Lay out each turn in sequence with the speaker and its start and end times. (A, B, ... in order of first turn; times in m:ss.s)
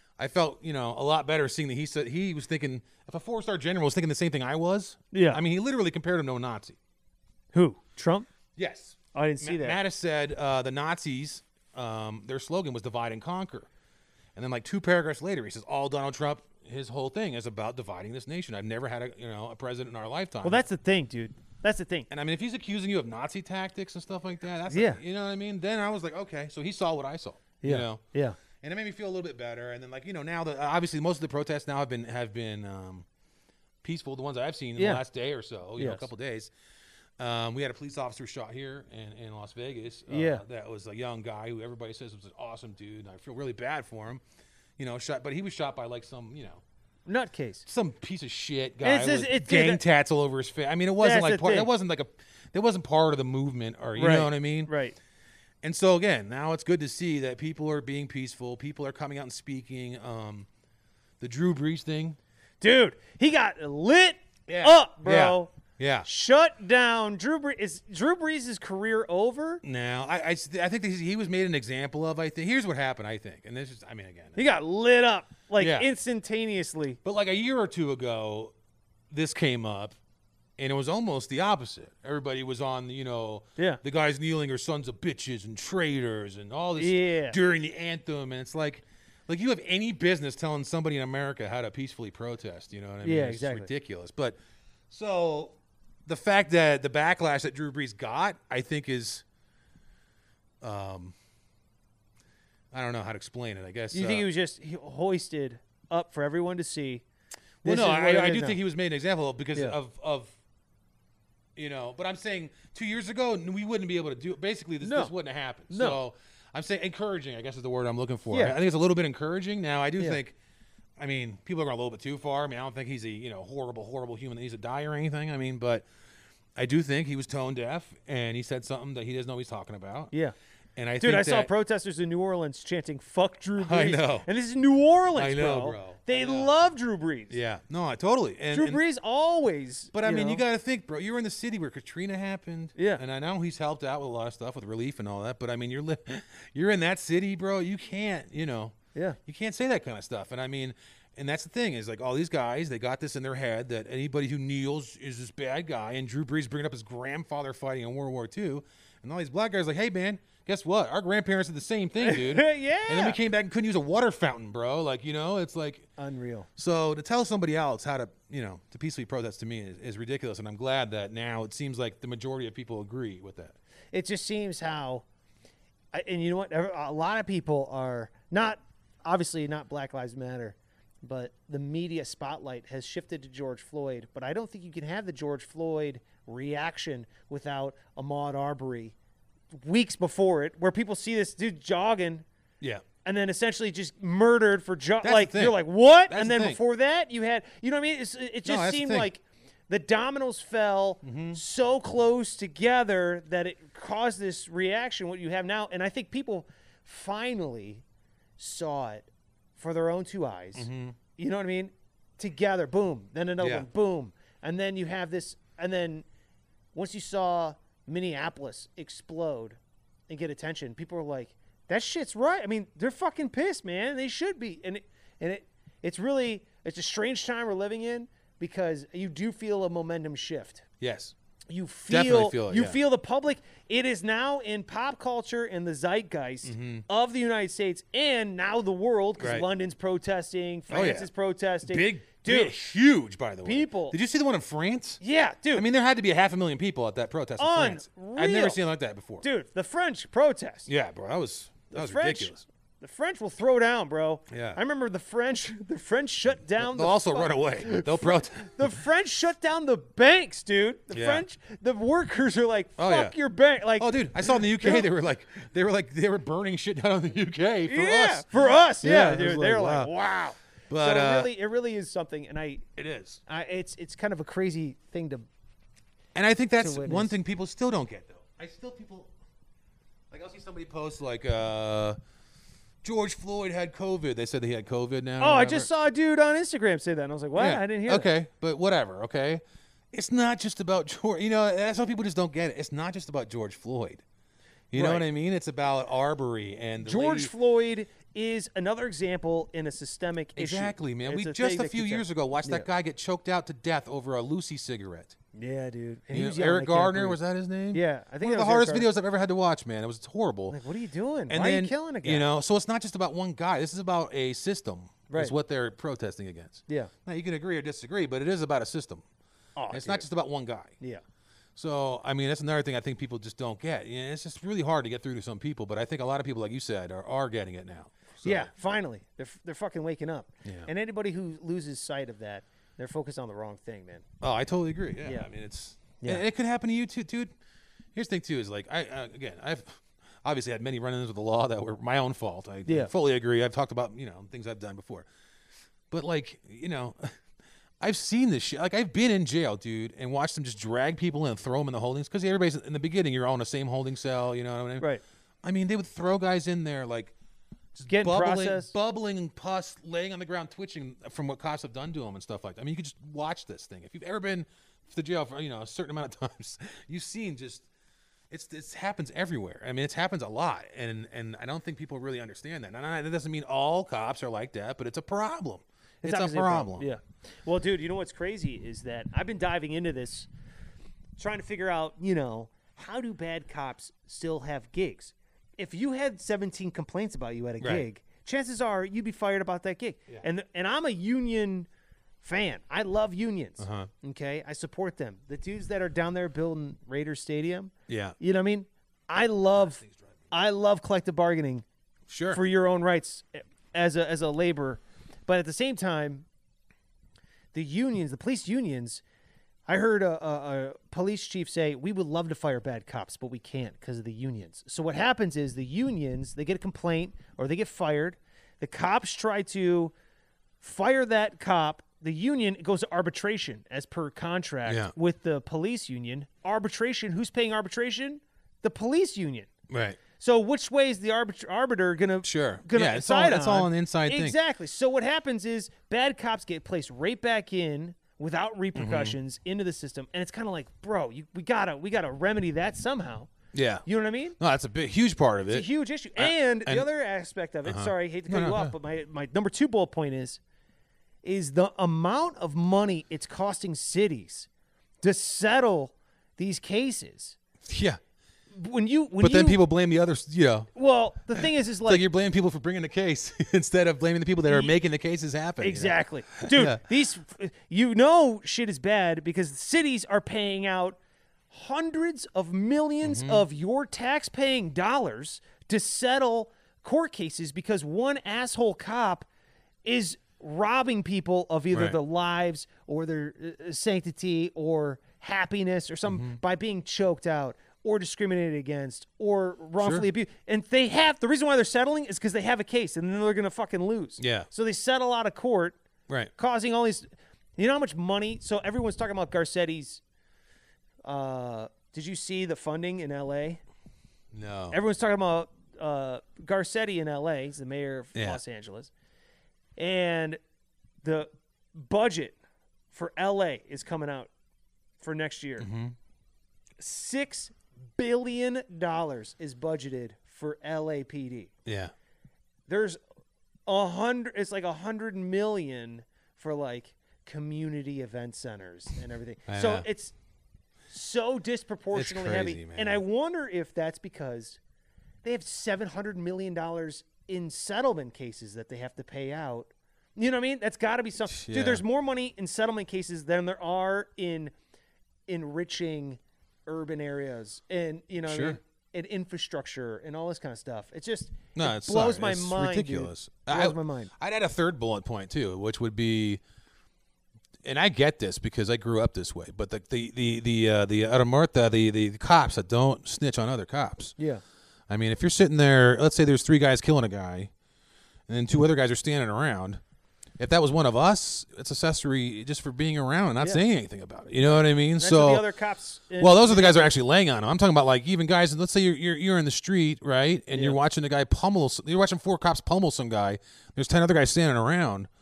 0:00.2-0:06.8 A
0:05.1-0:05.4 B
0:07.5-0:08.3 B
0:08.6-0:13.7 A
0:09.1-0:09.8 B
0:14.4-0:20.6 A
0:20.4-0:22.1 B
0:22.1-0:28.0 A
0:24.7-0:25.0 B
0:27.6-0:28.4 B
0:28.6-0:33.1 A
0:33.8-0:36.5 A
0:34.8-0:35.0 B
0:35.8-0:36.1 B
0:37.2-0:44.2 A
0:40.1-0:40.4 B
0:44.8-0:46.6 A
0:47.1-0:47.7 B
0:47.7-0:54.7 A
0:48.8-0:49.8 B
0:51.0-0:51.7 B
0:54.0-0:55.0 B
0:55.6-1:00.5 A
1:01.2-1:02.2 A
1:02.6-1:05.5 B
1:04.5-1:06.1 A
1:06.0-1:09.6 B
1:09.6-1:14.4 A
1:14.4-1:17.0 B
1:15.6-1:15.9 A
1:17.0-1:18.5 A
1:19.1-1:20.0 A
1:20.6-1:34.4 A
1:26.8-1:27.4 B
1:33.0-1:33.7 B
1:34.9-1:39.2 A
1:40.6-1:41.2 A
1:42.7-1:44.3 A
1:43.9-1:47.0 B
1:47.6-1:48.6 B
1:47.6-1:50.4 A
1:51.6-2:00.4 A
1:54.8-1:55.1 B
1:55.7-1:56.0 B
1:58.3-1:58.6 B
2:01.0-2:05.9 A
2:06.6-2:10.1 A
2:10.8-2:11.5 A
2:11.0-2:17.4 B
2:13.6-2:14.3 A
2:15.2-2:16.5 A
2:17.3-2:18.8 A
2:18.5-2:20.4 B
2:19.9-2:45.9 A
2:22.8-2:23.0 B
2:42.0-2:43.2 B
2:46.0-2:46.5 B
2:46.6-2:53.6 A
2:53.9-2:55.0 B
2:55.9-3:09.0 B
3:09.6-3:12.3 B
3:13.0-3:27.8 B
3:15.0-3:16.6 A
3:18.4-3:19.1 A
3:21.0-3:21.4 A
3:28.4-3:36.1 B
3:30.6-3:31.0 A
3:33.4-3:33.7 A
3:36.7-3:50.7 B
3:50.8-3:51.2 A
3:51.5-4:02.6 B
3:51.9-3:52.8 A
3:56.4-3:56.8 A
3:59.2-3:59.5 A
4:00.7-4:01.1 A
4:01.6-4:05.0 A
4:03.4-4:04.0 B
4:05.0-4:05.7 B
4:05.5-4:09.2 A
4:07.4-4:08.6 B
4:09.2-4:10.7 B
4:10.7-4:12.5 A
4:11.7-4:24.9 B
4:14.3-4:14.6 A
4:16.6-4:18.8 A
4:20.9-4:21.2 A
4:22.8-4:23.2 A
4:23.8-4:29.9 A
4:27.7-4:32.6 B
4:30.7-4:31.3 A
4:32.8-4:33.2 A
4:33.3-4:35.2 B
4:36.2-4:39.1 A
4:36.6-4:37.1 B
4:40.1-4:42.0 A
4:42.8-4:45.7 A
4:45.2-4:48.1 B
4:47.4-4:54.0 A
4:54.7-4:57.3 A
4:54.7-4:55.1 B
4:56.8-5:02.7 B
5:00.4-5:05.2 A
5:05.3-5:07.2 B
5:06.1-5:10.6 A
5:07.7-5:08.9 B
5:10.5-5:12.3 B
5:11.3-5:19.0 A
5:15.1-5:15.4 B
5:19.6-5:20.1 B
5:19.7-5:20.8 A
5:21.6-5:28.5 A
5:28.2-5:34.0 B
5:34.2-5:37.3 A
5:36.0-5:36.2 B
5:38.0-5:45.1 A
5:45.9-5:47.2 A
5:47.8-5:54.9 A
5:55.4-5:57.2 A
5:57.7-6:07.7 A
5:57.9-5:58.7 B
6:08.3-6:16.9 A
6:16.0-6:20.3 B
6:21.2-6:31.7 B
6:27.6-6:27.9 A
6:32.2-6:41.6 B
6:33.6-6:33.9 A
6:37.9-6:38.2 A
6:42.1-6:42.4 A
6:42.3-6:46.3 B
6:47.5-6:49.0 B
6:49.7-6:59.9 B
7:00.6-7:09.5 B
7:04.7-7:04.9 A
7:09.7-7:10.0 A
7:10.1-7:23.3 B
7:12.2-7:14.4 A
7:18.8-7:19.2 A
7:23.5-7:23.8 A
7:23.9-7:24.4 B
7:24.4-7:26.9 A
7:25.5-7:30.4 B
7:27.6-7:28.8 A
7:31.2-7:34.5 B
7:35.0-7:37.4 B
7:37.6-7:38.0 A
7:38.5-7:39.6 B
7:39.2-7:40.7 A
7:40.8-7:42.0 B
7:41.4-7:46.8 A
7:45.6-7:51.0 B
7:51.5-7:59.3 B
7:53.0-7:53.4 A
7:59.8-8:15.8 B
8:01.7-8:02.0 A
8:06.1-8:06.4 A
8:09.8-8:10.1 A
8:14.2-8:14.5 A
8:16.4-8:17.1 B
8:17.6-8:20.0 B
8:21.0-8:23.6 B
8:24.3-8:24.8 A
8:24.7-8:28.9 B
8:28.2-8:28.4 A
8:29.8-8:30.4 B
8:31.0-8:32.4 B
8:32.9-8:34.3 B
8:35.0-8:35.7 B
8:35.6-8:36.0 A
8:36.8-8:41.5 B
8:41.7-8:41.9 A
8:42.7-8:43.0 B
8:43.7-8:50.2 B
8:49.5-8:49.9 A
8:50.9-8:54.6 B
8:51.9-8:53.0 A
8:55.2-9:04.5 B
9:01.3-9:01.8 A
9:05.3-9:14.1 B
9:08.3-9:08.6 A
9:11.6-9:16.4 A
9:17.6-9:24.2 A
9:24.2-9:24.4 B
9:24.9-9:27.5 A
9:28.3-9:29.8 A
9:30.4-9:35.4 A
9:34.6-9:37.0 B
9:36.2-9:45.1 A
9:40.5-9:40.8 B